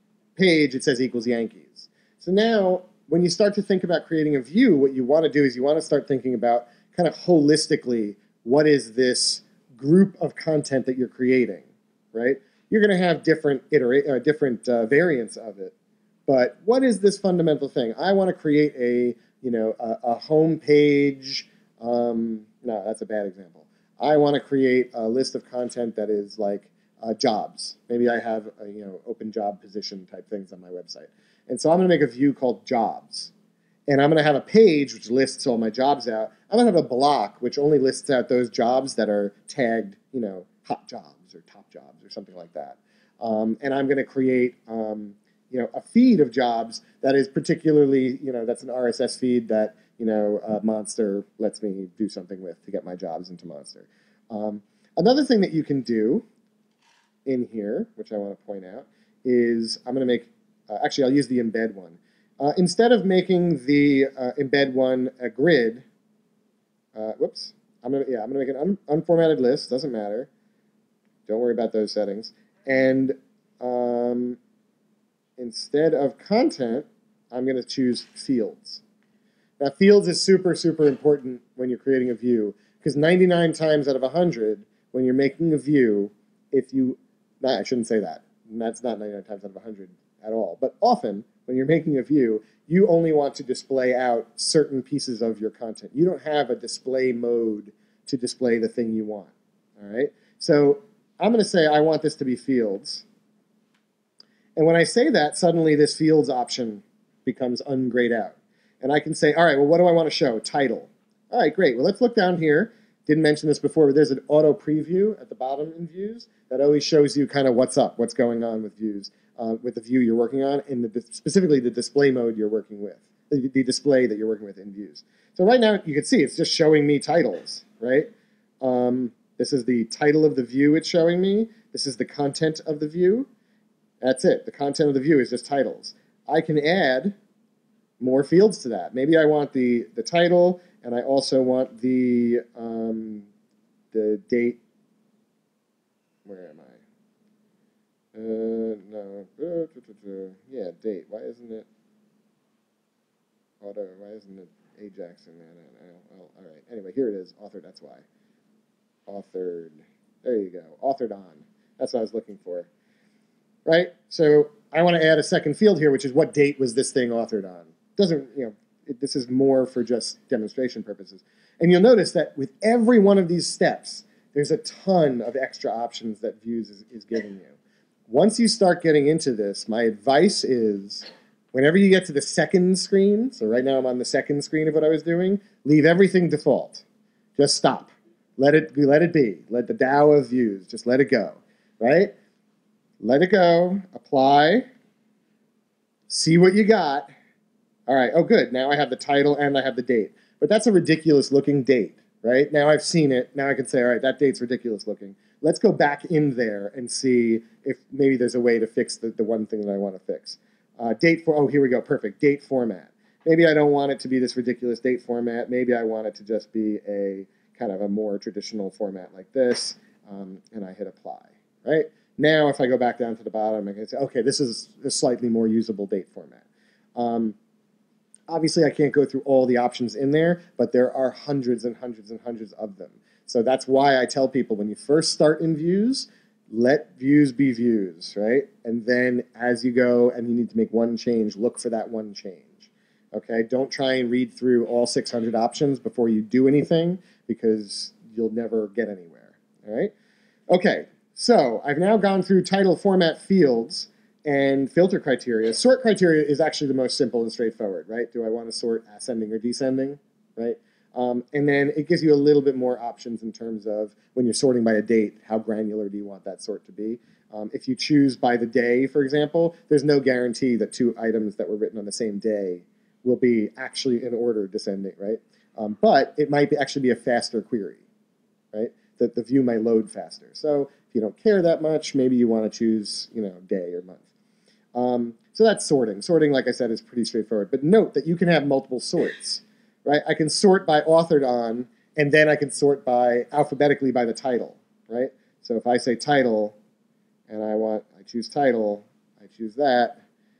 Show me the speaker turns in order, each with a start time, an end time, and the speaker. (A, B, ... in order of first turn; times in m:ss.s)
0:00.4-0:15.7 A
0:16.3-0:33.3 A
0:33.9-0:56.2 A
0:57.2-1:05.8 A
1:06.9-1:10.3 A
1:11.3-1:14.4 A
1:15.4-1:18.8 A
1:19.6-1:43.0 A
1:44.6-2:08.1 A
2:08.6-2:13.3 A
2:14.0-2:17.2 A
2:18.0-2:23.3 A
2:23.9-2:24.6 A
2:26.2-2:26.8 A
2:28.1-2:31.6 A
2:33.6-2:38.0 A
2:39.1-2:42.7 A
2:43.6-2:57.5 A
2:58.1-3:06.8 A
3:07.4-3:12.1 A
3:13.0-3:14.7 A
3:16.1-3:17.1 A
3:17.9-3:46.4 A
3:47.0-3:47.3 A
3:48.3-4:09.9 A
4:10.5-4:37.8 A
4:38.5-4:44.0 A
4:44.7-4:56.5 A
4:57.3-5:00.0 A